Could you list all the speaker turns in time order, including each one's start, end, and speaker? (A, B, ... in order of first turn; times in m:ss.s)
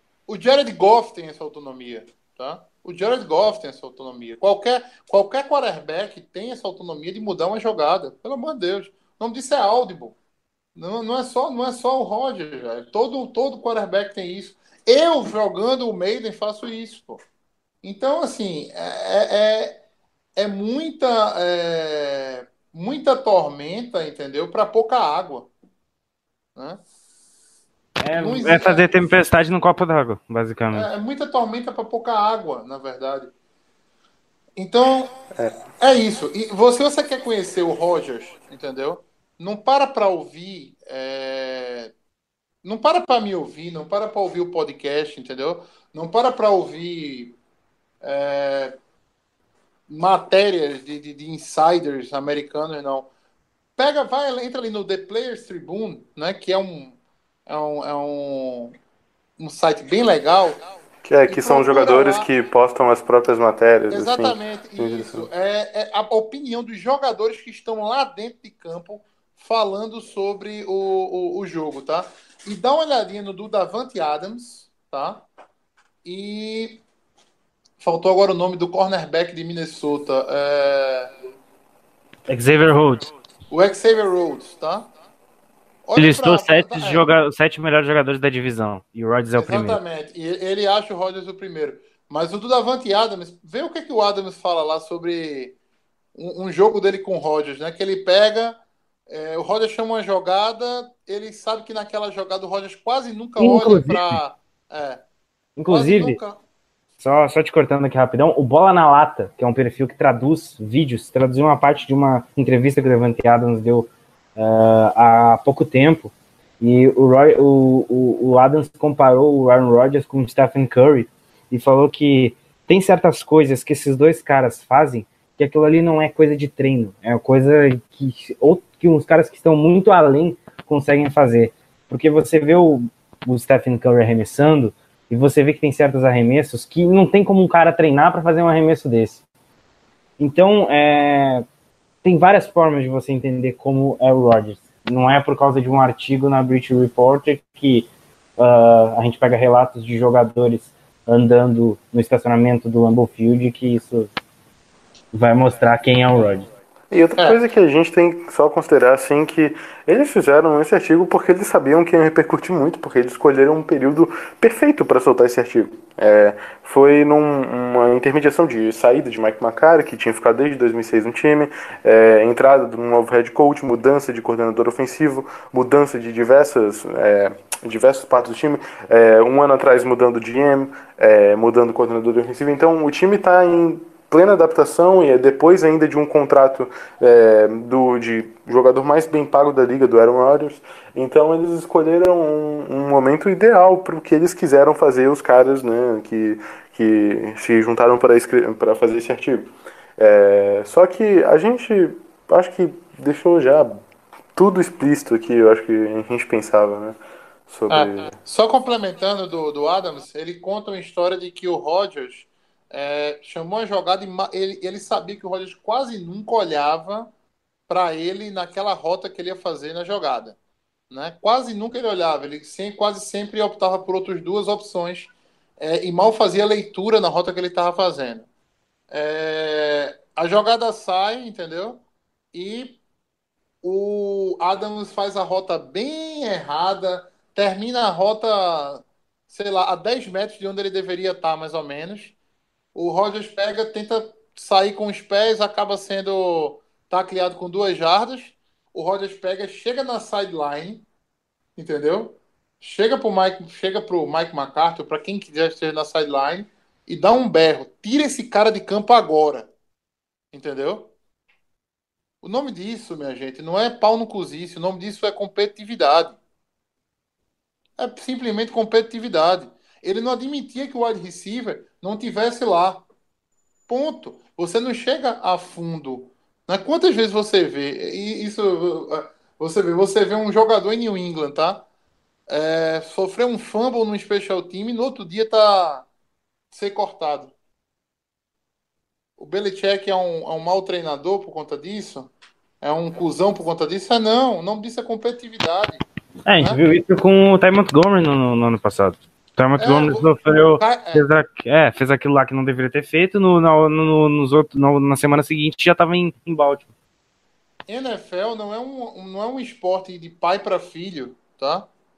0:00.3-0:10.2 A
0:10.8-0:17.2 A
0:17.8-0:19.8 A
0:20.4-0:25.5 A
0:28.0-0:30.9 B
0:28.1-0:28.9 A
0:30.7-0:33.3 A
0:34.6-0:35.1 A
0:35.8-0:41.9 A
0:42.6-0:47.4 A
0:48.0-0:48.8 A
0:49.9-0:53.1 A
0:53.8-0:58.7 A
0:59.4-1:00.6 A
1:01.0-1:05.3 C
1:01.3-1:02.3 A
1:03.9-1:15.3 A
1:16.0-1:16.8 A
1:17.8-1:21.1 A
1:22.3-1:23.1 B
1:23.5-1:24.9 A
1:25.8-1:27.1 A
1:26.0-1:29.8 B
1:29.4-1:35.6 A
1:36.2-1:38.6 A
1:39.1-1:45.0 A
1:43.4-1:44.2 B
1:45.6-1:46.2 B
1:45.7-1:46.4 A
1:47.0-2:19.2 B
2:20.2-2:21.4 B
2:22.0-2:34.1 B
2:35.1-2:36.5 B
2:36.9-3:23.7 C
3:24.4-3:28.1 C
3:27.7-3:37.1 A
3:37.7-3:40.4 A
3:40.9-3:48.3 A
3:48.9-3:51.8 A
3:52.3-3:52.8 A
3:53.6-4:02.2 A
4:02.8-4:10.9 A
4:11.6-4:19.5 A
4:20.3-4:20.9 A
4:22.2-4:26.2 A
4:27.8-4:32.8 A
4:33.7-4:41.6 A
4:42.3-4:45.9 A
4:46.5-4:47.3 A
4:49.2-4:55.8 A
4:56.3-5:06.7 B
4:59.6-5:01.1 A
5:07.7-5:11.7 A